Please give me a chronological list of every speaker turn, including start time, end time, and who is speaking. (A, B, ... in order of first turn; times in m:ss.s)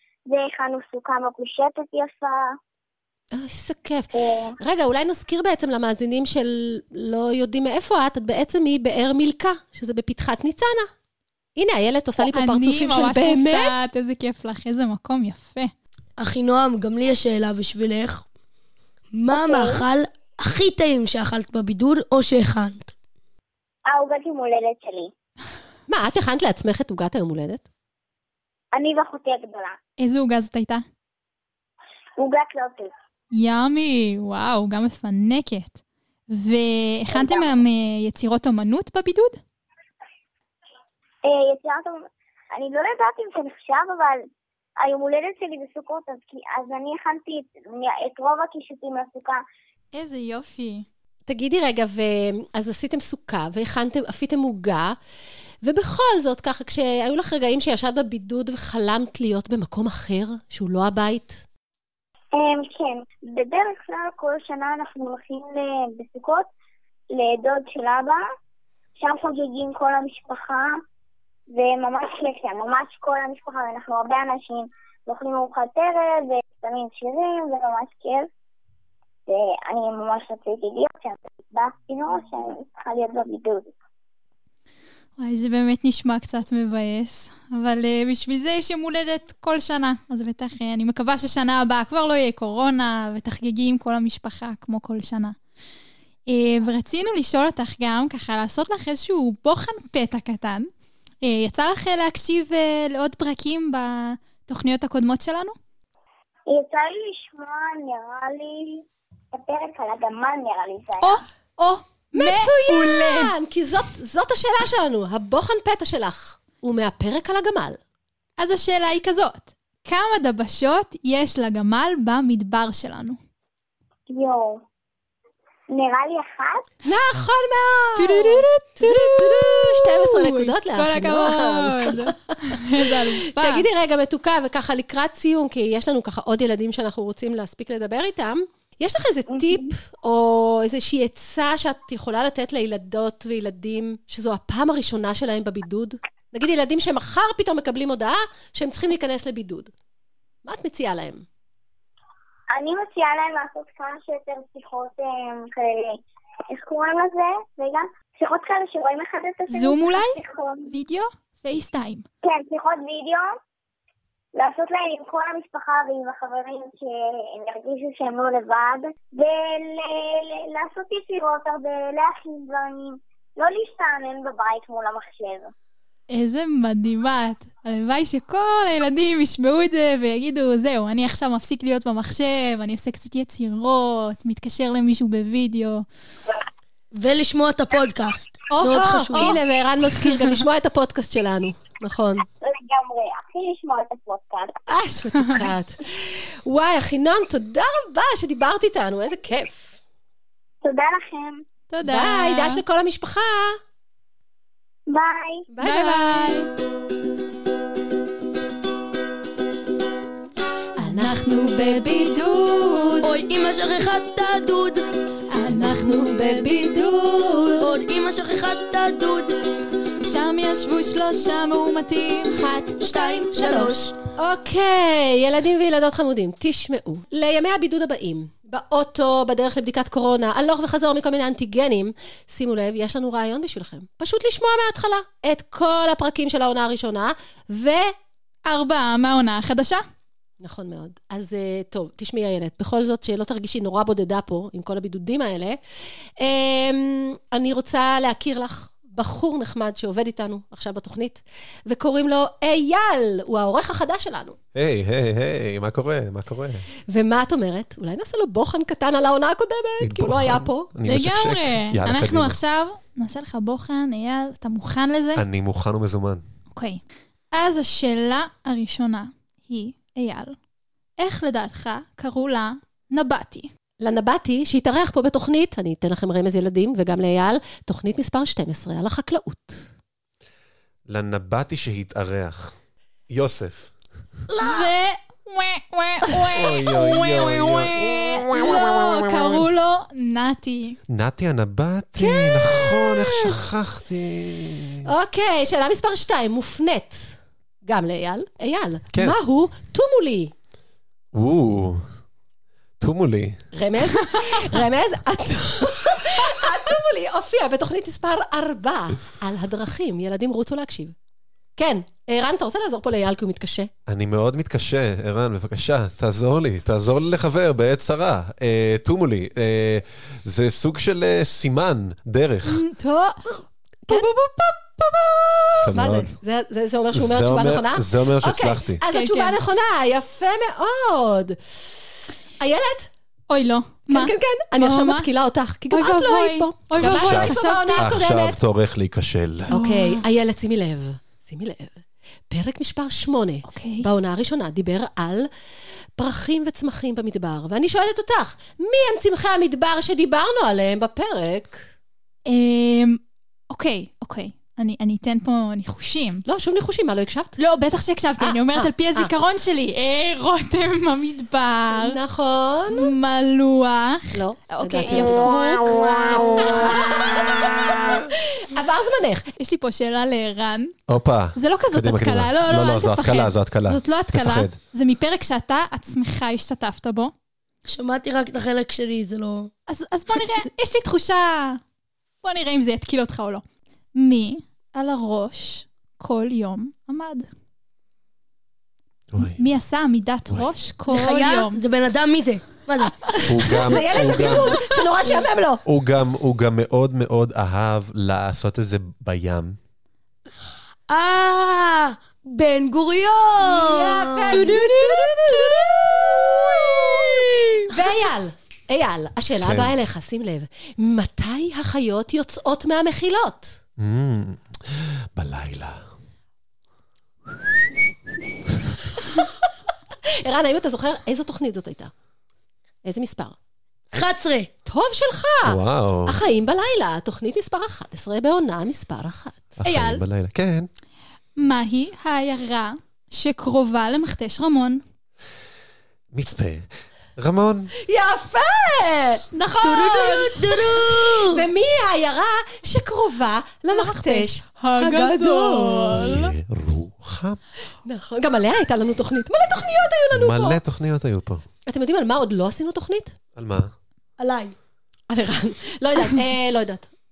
0:00.3-0:02.5 A
0:03.3-0:10.9 B
0:04.1-0:04.6 A
0:11.6-0:13.7 B
0:12.3-0:15.7 C
0:16.2-0:18.2 D
0:19.1-0:22.9 D
0:19.3-0:19.8 A
0:23.9-0:25.1 A
0:25.9-0:27.6 B
0:28.7-0:29.8 A
0:30.0-0:30.8 C
0:32.2-0:32.9 A
0:33.3-0:35.8 C
0:36.3-0:39.4 C
0:37.1-0:37.5 A
0:41.2-0:44.2 A
0:44.8-0:49.4 A
0:49.9-0:50.8 C
0:51.3-0:55.0 B
0:55.6-1:01.4 B
1:02.3-1:06.5 A
1:07.1-1:08.2 A
1:09.0-1:10.8 A
1:11.5-1:18.3 A
1:19.3-1:23.7 A
1:25.2-1:35.4 C
1:36.3-1:40.7 C
1:41.2-1:45.6 C
1:46.5-1:51.2 A
1:51.0-1:53.3 C
1:52.1-1:57.8 B
1:58.4-2:03.2 C
2:04.1-2:04.6 A
2:05.7-2:06.6 A
2:06.8-2:29.7 B
2:08.0-2:13.6 C
2:19.3-2:19.7 A
2:30.4-2:31.2 B
2:32.5-2:40.7 A
2:39.5-2:42.0 C
2:42.2-2:43.3 A
2:44.3-2:55.5 A
2:56.1-3:05.8 C
3:06.9-3:09.4 D
3:08.5-3:09.4 C
3:08.6-3:12.2 B
3:10.0-3:10.3 C
3:12.4-3:14.6 A
3:14.7-3:19.8 B
3:20.6-3:21.4 A
3:21.7-3:22.6 C
3:21.8-3:23.6 B
3:24.9-3:25.5 A
3:25.5-3:26.4 B
3:25.6-3:26.5 C
3:30.8-3:33.1 C
3:30.8-3:31.2 B
3:33.0-3:34.8 D
3:35.3-3:37.6 C
3:35.5-3:37.2 B
3:37.6-3:39.3 D
3:40.0-3:43.7 C
3:42.4-3:57.9 B
3:42.8-3:43.9 D
3:58.5-3:59.8 C
4:00.4-4:05.6 B
4:06.2-4:14.4 B
4:14.5-4:16.6 E
4:16.9-4:20.7 B
4:19.8-4:22.4 E
4:20.8-4:25.2 C
4:25.2-4:26.2 E
4:26.5-4:26.8 C
4:27.3-4:30.4 C
4:31.0-4:33.5 C
4:33.8-4:39.6 B
4:40.9-4:42.5 E
4:43.1-4:43.7 E
4:44.4-4:50.8 C
4:46.3-4:49.1 E
4:50.9-4:54.9 E
4:52.0-4:53.4 B
4:54.8-5:00.3 B
5:01.1-5:01.9 E
5:02.8-5:03.4 E
5:03.5-5:10.9 B
5:11.6-5:13.7 B
5:13.9-5:22.6 E
5:22.8-5:23.2 B
5:23.9-5:31.6 B
5:25.6-5:26.1 E
5:26.9-5:28.8 E
5:28.9-5:29.4 C
5:32.4-5:32.9 B
5:33.3-5:35.1 C
5:33.9-5:38.4 B
5:35.7-5:37.9 C
5:36.8-5:39.6 E
5:39.5-5:40.0 C
5:39.5-5:45.3 B
5:43.4-5:43.9 C
5:46.0-5:51.6 B
5:52.3-5:56.2 C
5:56.2-5:57.3 B
5:57.4-6:02.0 C
5:58.2-5:59.1 B
6:01.7-6:02.9 B
6:02.7-6:06.8 C
6:04.1-6:09.3 B
6:09.4-6:10.7 C
6:10.9-6:14.6 E
6:11.4-6:17.1 C
6:17.6-6:19.5 D
6:19.7-6:21.6 C
6:22.2-6:23.4 C
6:24.0-6:27.3 C
6:29.1-6:29.4 E
6:29.2-6:31.6 C
6:30.9-6:33.6 D
6:33.2-6:34.6 E
6:33.6-6:35.6 B
6:35.6-6:39.6 E
6:40.9-6:44.7 D
6:43.4-6:46.7 B
6:44.3-6:45.1 C
6:46.2-6:47.7 D
6:47.7-6:53.6 B
6:49.4-6:49.7 E
6:53.8-6:55.8 E
7:00.2-7:01.9 B
7:02.8-7:03.4 B
7:03.9-7:04.5 D
7:04.6-7:09.6 B
7:05.4-7:06.2 E
7:09.6-7:10.7 E
7:09.6-7:10.0 C
7:11.4-7:14.8 C
7:16.1-7:17.7 E
7:17.8-7:19.2 B
7:19.3-7:20.5 C
7:19.6-7:21.4 D
7:20.8-7:26.2 B
7:23.7-7:26.3 C
7:25.9-7:27.4 E
7:27.8-7:30.6 B
7:30.1-7:31.4 E
7:31.7-7:33.2 B
7:33.4-7:33.7 E
7:34.2-7:34.5 D
7:35.1-7:36.9 B